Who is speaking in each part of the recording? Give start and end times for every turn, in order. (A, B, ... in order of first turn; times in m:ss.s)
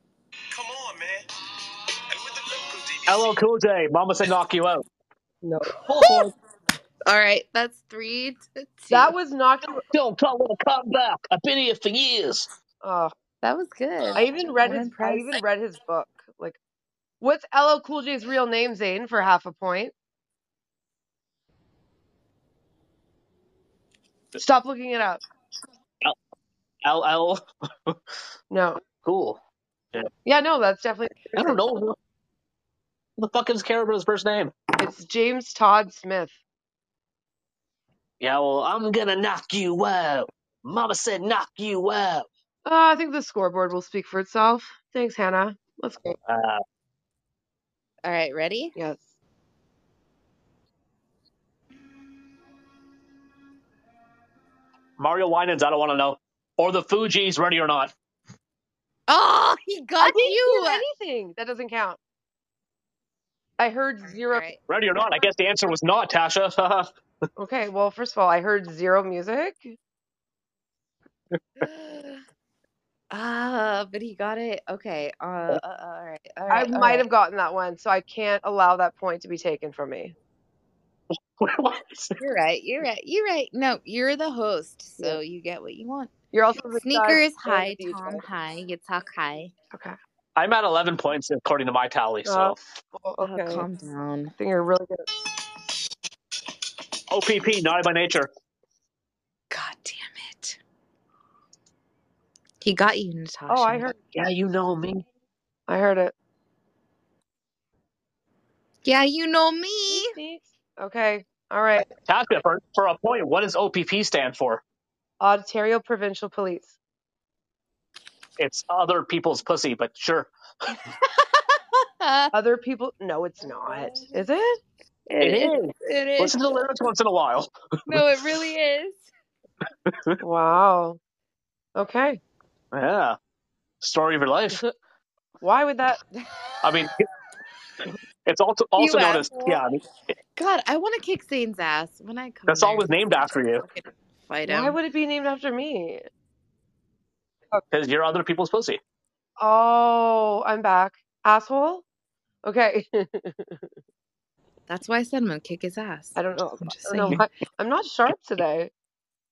0:00.5-0:01.3 A
0:02.1-0:03.3 A
0:03.1-0:04.8 B
0:05.4-0:05.8 C
0:05.8-0:06.3 B
0:06.0-0:06.3 D
0:07.0-0:09.1 D
0:08.9-0:09.8 C
0:09.9-0:12.5 B
0:12.8-0:13.1 C
0:13.4-0:15.4 D
0:14.2-0:16.6 C
0:17.2-0:19.9 C
0:24.3-0:25.2 C
0:26.8-0:28.0 B
0:28.5-0:28.8 C
0:29.0-0:29.4 B
0:30.2-0:31.6 C
0:31.3-0:32.0 B
0:33.2-0:34.5 B
0:34.8-0:36.4 C
0:38.2-0:42.3 B
0:42.6-0:46.2 C
0:46.3-0:46.6 B
0:48.0-0:48.7 D
0:48.8-0:49.1 C
0:55.0-0:57.9 B
0:59.1-1:00.8 D
1:00.0-1:02.0 C
1:03.6-1:04.4 C
1:04.3-1:04.6 D
1:04.7-1:06.9 B
1:07.4-1:09.8 C
1:11.6-1:12.2 D
1:13.1-1:17.0 D
1:16.5-1:20.1 C
1:21.4-1:22.2 B
1:22.2-1:26.1 D
1:26.3-1:28.2 C
1:26.8-1:29.5 D
1:30.4-1:32.6 B
1:32.2-1:33.6 C
1:33.2-1:34.3 D
1:34.4-1:35.1 C
1:37.1-1:38.3 B
1:39.5-1:40.6 D
1:42.6-1:43.9 D
1:43.5-1:44.0 C
1:44.1-1:45.0 B
1:45.7-1:46.1 C
1:48.8-1:50.1 D
1:49.9-1:51.9 C
1:52.1-1:54.6 B
1:55.2-1:56.8 C
1:58.4-2:00.3 B
2:02.0-2:02.3 D
2:02.3-2:04.6 C
2:05.1-2:06.6 D
2:05.2-2:08.1 B
2:07.9-2:09.1 D
2:09.8-2:10.2 B
2:10.2-2:11.0 C
2:11.8-2:12.2 C
2:12.7-2:13.2 B
2:13.8-2:14.6 B
2:15.4-2:16.0 C
2:16.6-2:17.0 B
2:18.2-2:19.8 B
2:18.8-2:19.6 D
2:20.4-2:24.8 D
2:22.5-2:23.6 B
2:24.4-2:26.0 C
2:27.7-2:28.8 B
2:29.4-2:31.8 C
2:32.4-2:33.6 C
2:34.7-2:37.2 D
2:36.2-2:38.7 C